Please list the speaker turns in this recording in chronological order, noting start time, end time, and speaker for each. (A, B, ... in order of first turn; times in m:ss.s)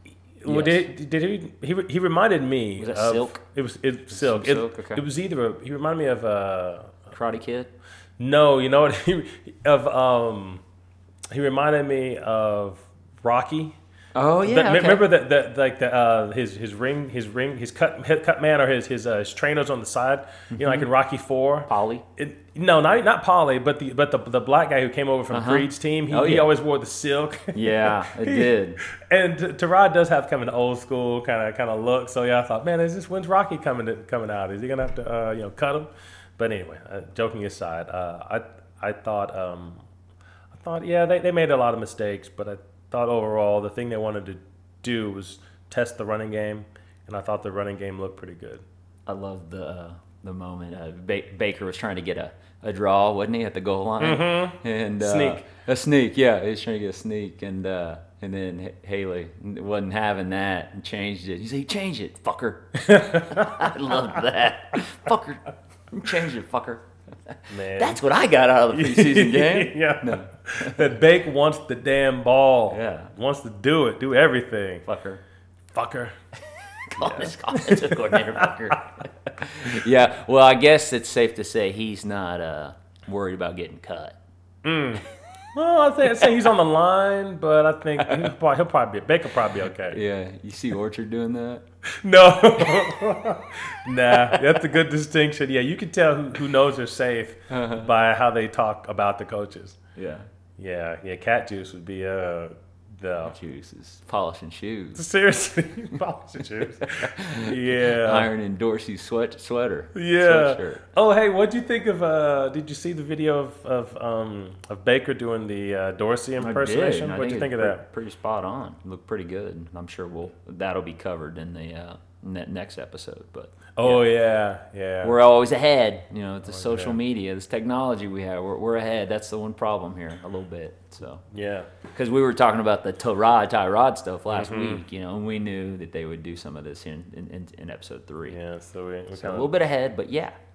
0:00.4-0:07.1 A
0:00.4-0:00.9 B
0:02.8-0:03.4 B
0:04.1-0:05.0 B
0:07.1-0:07.7 B
0:08.2-0:10.6 A
0:11.3-0:13.8 A
0:14.1-0:15.1 B
0:14.4-0:39.8 A
0:20.5-0:20.8 B
0:21.7-0:22.0 B
0:25.3-0:26.5 B
0:27.5-0:28.8 B
0:40.5-0:48.6 A
0:49.1-1:10.9 B
0:54.0-0:55.4 A
1:02.8-1:03.7 A
1:07.5-1:08.0 A
1:08.7-1:14.8 A
1:12.7-1:13.1 B
1:14.8-1:15.2 B
1:15.7-1:16.2 A
1:16.8-1:18.7 A
1:16.9-1:24.2 B
1:24.6-1:30.0 A
1:29.9-1:31.6 B
1:31.9-1:39.8 A
1:34.1-1:34.4 B
1:37.5-1:37.9 B
1:40.0-1:40.3 B
1:40.6-1:43.3 A
1:43.2-1:45.0 B
1:45.0-1:48.3 A
1:47.0-1:50.8 B
1:49.9-1:57.8 A
1:56.4-2:04.0 B
2:03.8-2:05.2 A
2:05.0-2:11.2 B
2:06.4-2:07.0 A
2:11.3-2:11.7 A
2:11.9-2:18.4 B
2:14.3-2:14.8 A
2:18.3-2:19.5 A
2:19.1-2:20.3 B